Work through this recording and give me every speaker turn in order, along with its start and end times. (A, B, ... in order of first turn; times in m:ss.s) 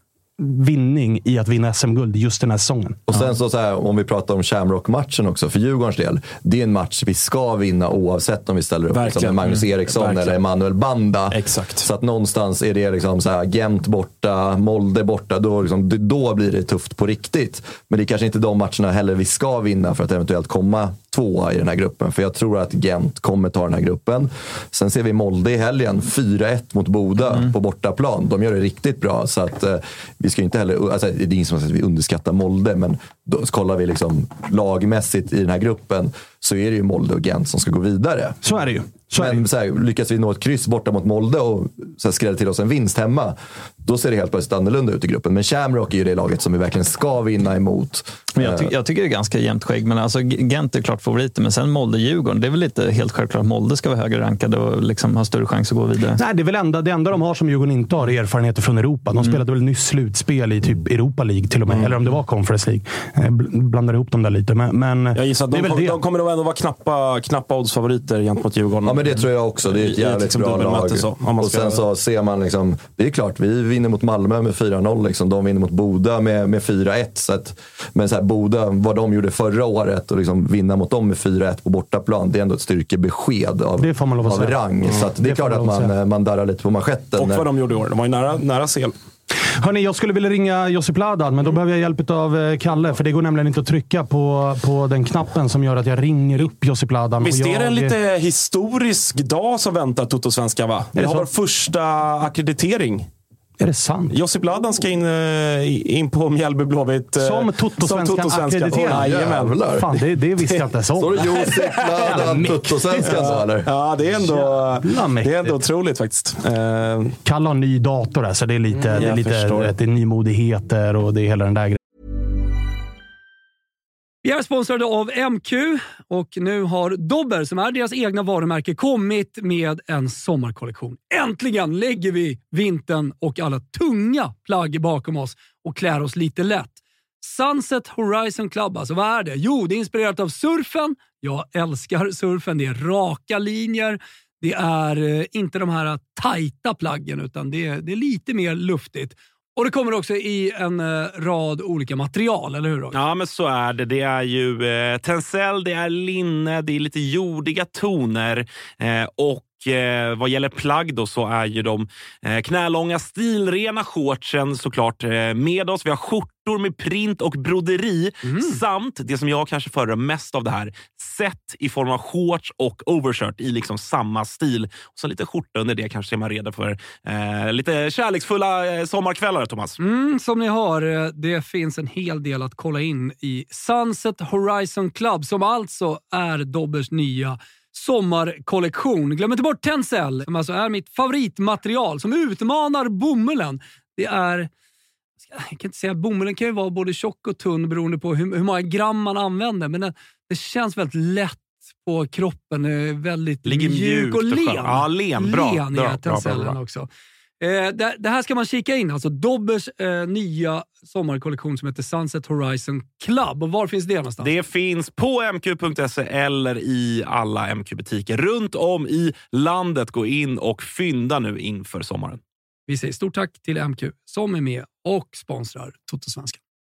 0:00.4-0:03.0 A
0:03.1-0:38.4 B
0:08.9-0:10.4 C
0:11.3-0:11.8 C
0:38.4-0:39.4 A
0:39.1-0:48.7 B
0:48.4-0:56.2 D
0:56.2-1:06.0 A
1:01.7-1:01.9 C
1:05.1-1:11.8 C
1:08.8-1:27.4 B
1:23.8-1:24.6 A
1:25.2-1:25.9 A
1:27.2-1:28.9 C
1:29.6-1:37.9 A
1:37.2-1:43.1 C
1:41.0-1:41.3 A
1:43.6-1:44.1 A
1:44.1-1:49.6 C
1:47.2-1:51.3 A
1:48.8-1:49.9 B
1:51.0-1:53.7 B
1:51.1-1:52.4 C
1:52.0-1:53.4 A
1:53.0-1:57.1 C
1:54.2-1:55.6 A
1:57.2-2:01.8 A
1:58.9-1:59.7 C
2:04.2-2:33.0 E
2:32.9-2:59.8 C
2:48.2-2:48.6 E
2:59.8-3:14.5 E
3:15.3-3:26.9 E
3:23.4-3:26.6 C
3:27.4-3:34.3 E
3:34.2-3:42.2 C
3:42.7-3:46.4 E